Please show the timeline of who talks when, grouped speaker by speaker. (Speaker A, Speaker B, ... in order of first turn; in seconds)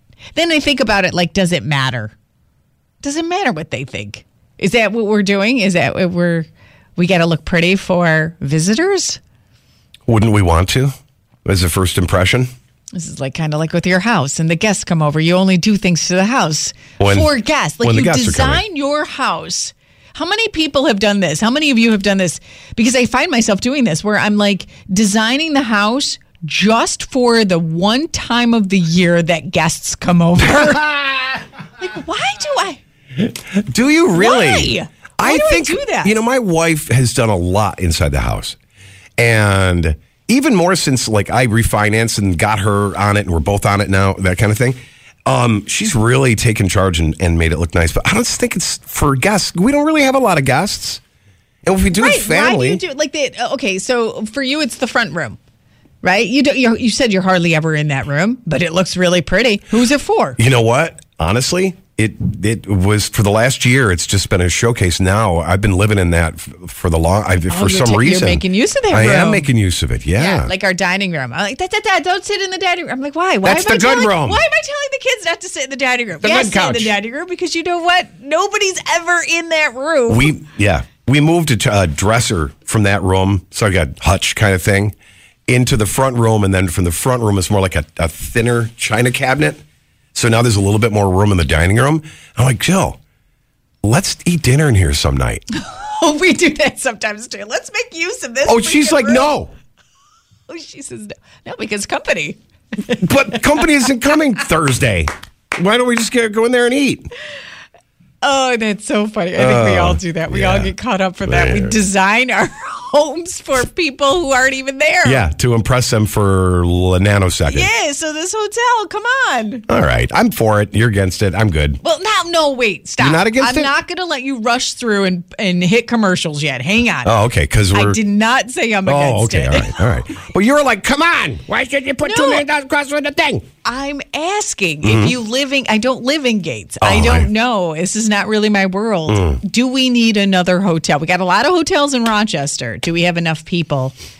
Speaker A: 0.3-2.1, 3.0-9.2, 12.9-30.9, 31.8-32.8, 34.1-36.2, 51.9-55.4, 56.0-60.4, 67.5-69.5, 70.1-80.3, 95.5-99.3, 100.5-102.4, 102.9-103.7, 108.2-115.2, 117.5-119.6, 121.8-127.1, 127.7-129.8, 132.0-132.4, 133.6-143.9
Speaker B: 10.1-10.9, 11.4-12.5, 17.0-17.3, 17.8-18.6, 30.5-31.2, 33.2-38.5, 39.2-51.0, 51.6-52.8, 60.4-70.5, 73.4-74.4, 76.2-76.9, 80.1-84.9, 85.5-89.6, 90.1-93.0, 93.8-95.4, 98.5-99.5, 103.0-107.1, 109.3-110.7, 111.2-111.8, 115.0-117.7, 119.7-121.8, 123.0-123.7, 127.0-128.0, 128.8-133.4, 134.8-135.1, 136.8-137.3, 139.1-139.4